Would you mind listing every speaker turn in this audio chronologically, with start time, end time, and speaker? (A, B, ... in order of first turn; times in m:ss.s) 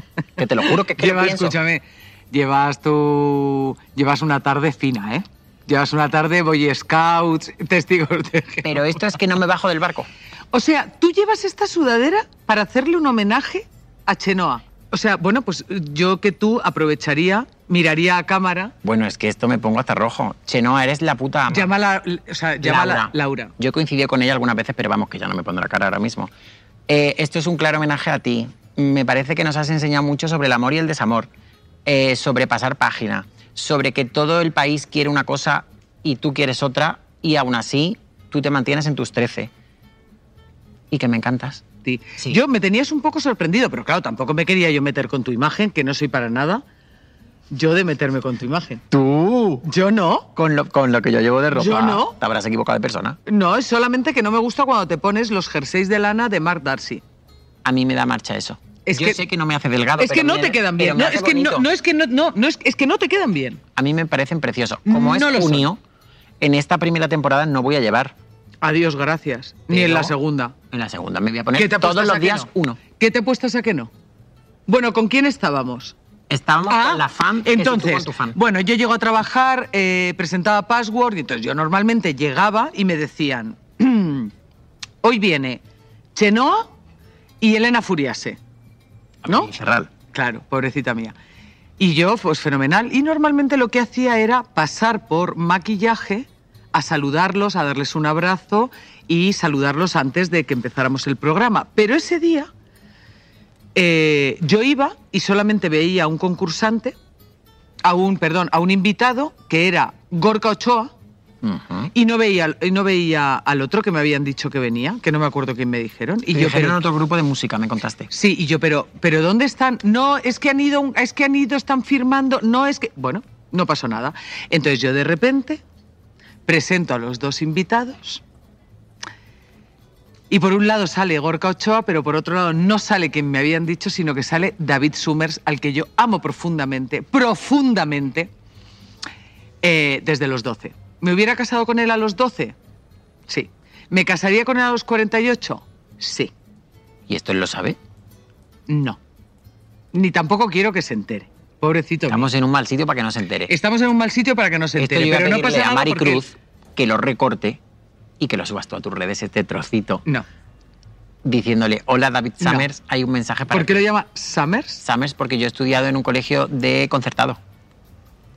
0:00.4-0:01.6 A
0:01.0-0:09.0 B
0:08.6-0:10.1 A
0:10.5-0:18.7 B
0:18.8-0:21.7 A
0:21.5-0:23.5 B
0:22.6-0:26.3 A
0:26.9-0:31.3 A
0:31.8-0:39.5 A
0:40.9-0:41.6 A
0:41.8-0:46.6 B
0:47.5-0:48.8 B
0:48.9-0:49.7 A
0:49.7-0:50.3 B
0:50.4-0:53.2 A
0:51.5-0:52.2 B
0:53.3-0:57.0 B
0:57.6-1:01.7 A
0:58.9-0:59.2 B
1:00.0-1:03.6 B
1:03.8-1:05.8 A
1:04.9-1:05.7 B
1:06.4-1:08.2 A
1:08.6-1:10.5 B
1:09.7-1:10.2 A
1:10.7-1:12.8 A
1:11.6-1:13.9 B
1:14.7-1:16.0 B
1:16.3-1:18.4 A
1:16.6-1:24.3 B
1:25.0-1:25.6 B
1:26.2-1:26.7 B
1:27.4-1:28.4 B
1:29.2-1:29.9 A
1:30.1-1:31.2 B
1:31.8-1:42.5 B
1:43.8-1:47.0 B
1:47.8-1:50.9 B
1:51.4-1:51.9 A
1:51.9-1:56.8 B
1:56.3-1:58.1 A
1:58.1-2:05.6 B
2:06.5-2:08.2 B
2:10.3-2:18.3 B
2:19.6-2:22.6 B
2:23.3-2:26.3 B
2:27.1-2:27.8 A
2:28.7-2:29.0 B
2:29.9-2:32.3 B
2:32.1-2:33.5 A
2:33.5-2:36.2 B
2:34.8-2:37.6 A
2:38.2-2:40.0 A
2:41.2-2:43.8 A
2:42.4-2:42.7 B
2:43.5-2:44.8 B
2:44.8-2:47.4 A